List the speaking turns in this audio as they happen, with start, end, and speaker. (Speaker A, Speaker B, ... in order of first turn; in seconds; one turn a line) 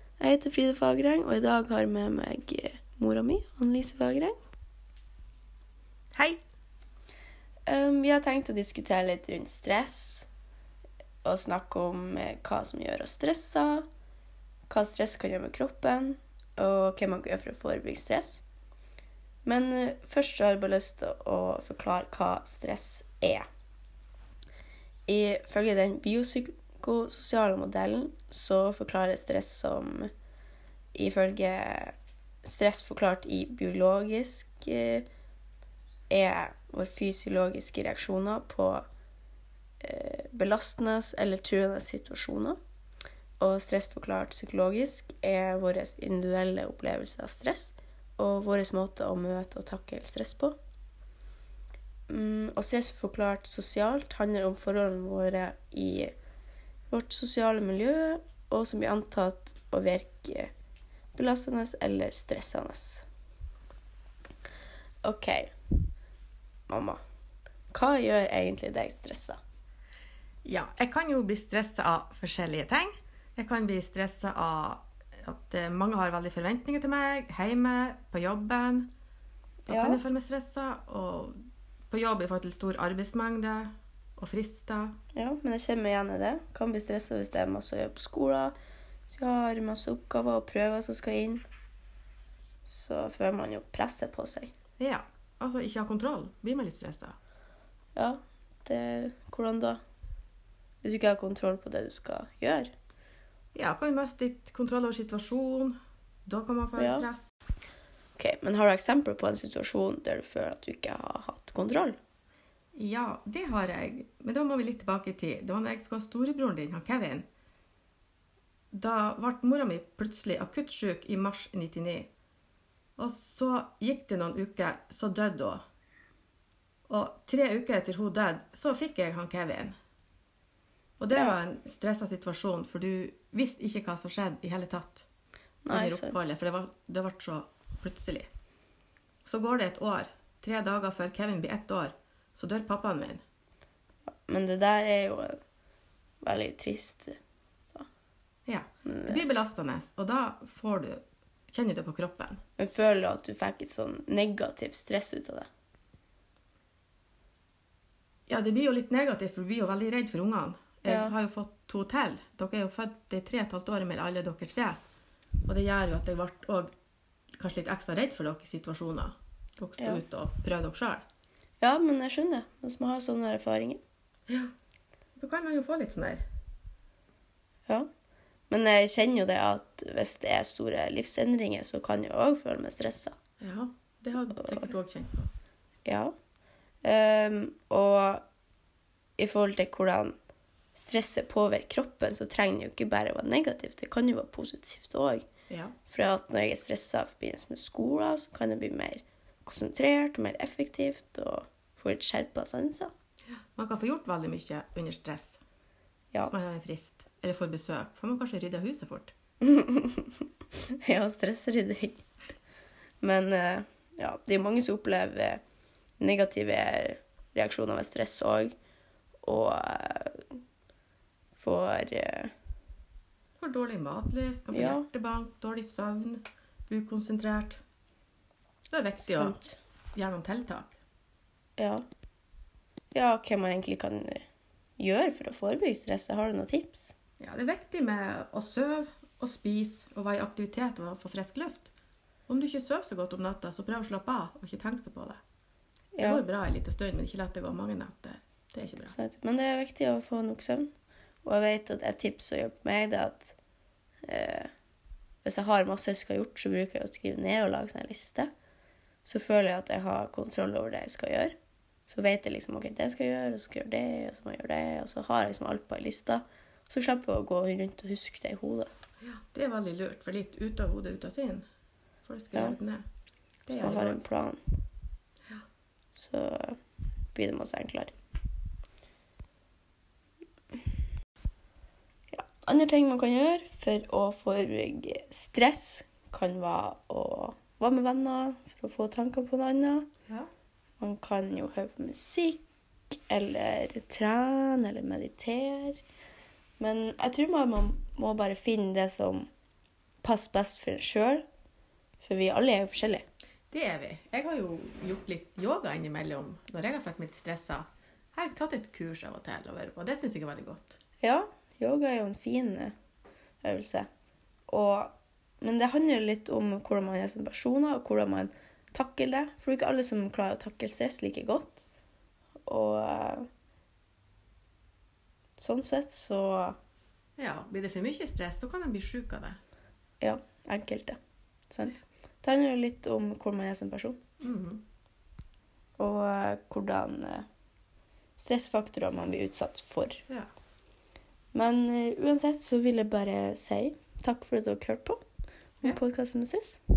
Speaker A: 0.2-4.3
Speaker A: 7.7-10.3
Speaker A: 11.2-13.8
Speaker A: 14.7-18.4
Speaker A: 19.4-23.4
Speaker A: 25.1-30.1
Speaker A: 30.9-35.0
Speaker A: 36.1-38.8
Speaker A: 39.8-42.6
Speaker A: 43.4-50.5
Speaker A: 52.1-56.1
Speaker A: 56.9-60.5
Speaker A: 61.1-63.0
Speaker A: 65.0-65.7
Speaker A: 66.7-67.0
Speaker A: 67.7-69.4
Speaker B: 70.4-78.9
Speaker A: 79.7-80.0
Speaker B: 79.7-84.9
Speaker A: 85.1-88.5
Speaker A: 89.1-91.4
Speaker A: 92.6-94.5
Speaker B: 94.8-97.2
Speaker A: 97.9-99.8
Speaker A: 100.8-102.7
Speaker B: 103.5-107.2
Speaker A: 106.8-107.0
Speaker A: 108.2-112.0
Speaker B: 112.7-117.2
Speaker B: 118.7-122.1
Speaker B: 123.0-125.6
Speaker B: 126.9-129.7
Speaker B: 131.0-135.1
Speaker A: 135.6-136.3
Speaker B: 135.7-138.3
Speaker B: 139.2-143.2
Speaker A: 144.2-145.4
Speaker A: 146.2-147.2
Speaker B: 148.4-152.4
Speaker A: 148.8-149.2
Speaker A: 152.6-155.5
Speaker B: 158.3-164.8
Speaker A: 160.8-161.1
Speaker B: 165.4-166.7
Speaker B: 167.4-171.0
Speaker A: 171.6-173.8
Speaker B: 175.2-176.2
Speaker A: 178.5-183.2
Speaker B: 183.4-185.3
Speaker A: 185.8-186.1
Speaker A: 186.8-188.2
Speaker A: 189.2-190.2
Speaker A: 190.7-195.2
Speaker B: 195.5-195.7
Speaker A: 195.9-202.9
Speaker B: 203.5-205.4
Speaker B: 206.2-209.1
Speaker A: 209.4-212.0
Speaker A: 213.0-215.4
Speaker A: 216.0-218.5
Speaker A: 219.2-220.2
Speaker A: 221.3-222.3
Speaker B: 223.4-227.6
Speaker A: 224.5-224.8
Speaker B: 228.7-229.4
Speaker A: 229.0-229.6
Speaker B: 229.9-230.8
Speaker A: 231.6-231.8
Speaker A: 232.9-234.2
Speaker A: 234.8-236.9
Speaker B: 237.2-241.7
Speaker B: 242.3-245.2
Speaker A: 245.9-246.2
Speaker B: 246.0-248.9
Speaker A: 248.8-250.7
Speaker A: 251.2-253.3
Speaker A: 254.1-254.5
Speaker A: 255.2-258.3
Speaker A: 259.0-261.3
Speaker A: 261.9-268.7
Speaker B: 269.0-271.4
Speaker B: 272.0-272.8
Speaker B: 273.4-274.0
Speaker A: 273.5-274.4
Speaker A: 275.9-276.6
Speaker A: 277.1-277.9
Speaker A: 282.1-289.9
Speaker A: 290.8-295.8
Speaker A: 296.6-299.3
Speaker A: 300.0-301.2
Speaker A: 302.0-303.0
Speaker B: 303.5-310.8
Speaker A: 311.0-312.7
Speaker A: 313.4-313.9
Speaker A: 314.5-321.6
Speaker A: 322.4-323.3
Speaker A: 325.4-326.6
Speaker B: 327.2-329.4
Speaker A: 330.0-331.0
Speaker A: 331.5-334.0
Speaker B: 334.2-334.6
Speaker A: 335.8-337.3
Speaker A: 338.2-340.0
Speaker A: 341.3-345.0
Speaker A: 345.6-346.6